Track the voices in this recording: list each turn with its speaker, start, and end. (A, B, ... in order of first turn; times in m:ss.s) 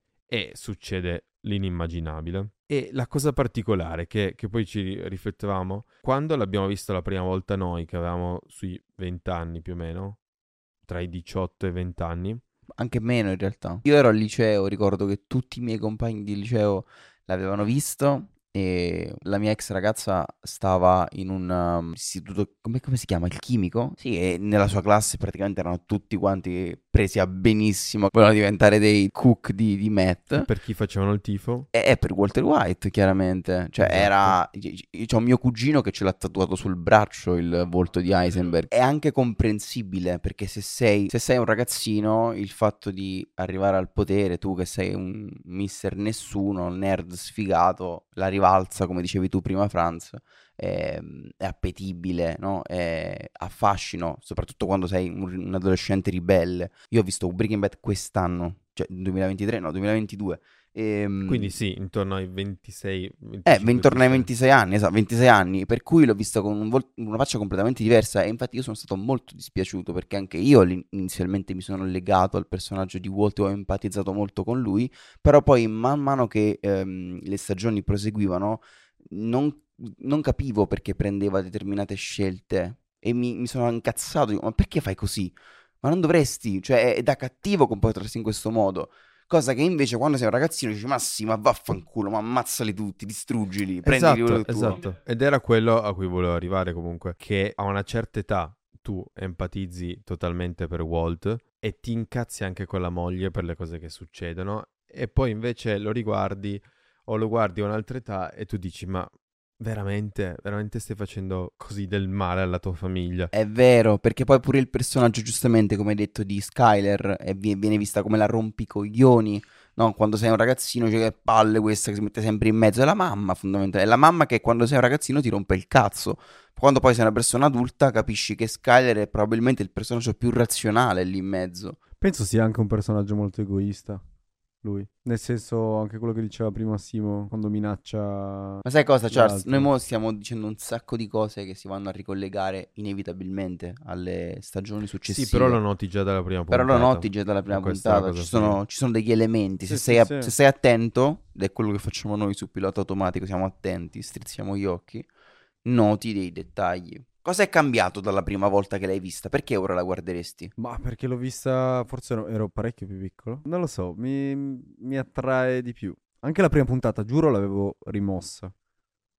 0:00.3-0:10.2 A
0:10.9-0:12.4 A
0:12.8-0:30.5 B
0:30.3-0:31.7 A
0:31.7-1:01.5 B
0:33.8-0:34.4 A
1:01.2-1:04.3 A
1:03.4-1:34.8 B
1:33.8-1:53.3 A
1:53.3-2:11.8 B
2:12.0-2:14.0 C
2:14.6-2:19.7 C
2:18.6-2:25.6 B
2:25.0-2:28.6 A
2:26.5-2:35.1 B
2:29.6-2:30.3 C
2:35.6-2:40.5 B
2:40.6-2:48.5 C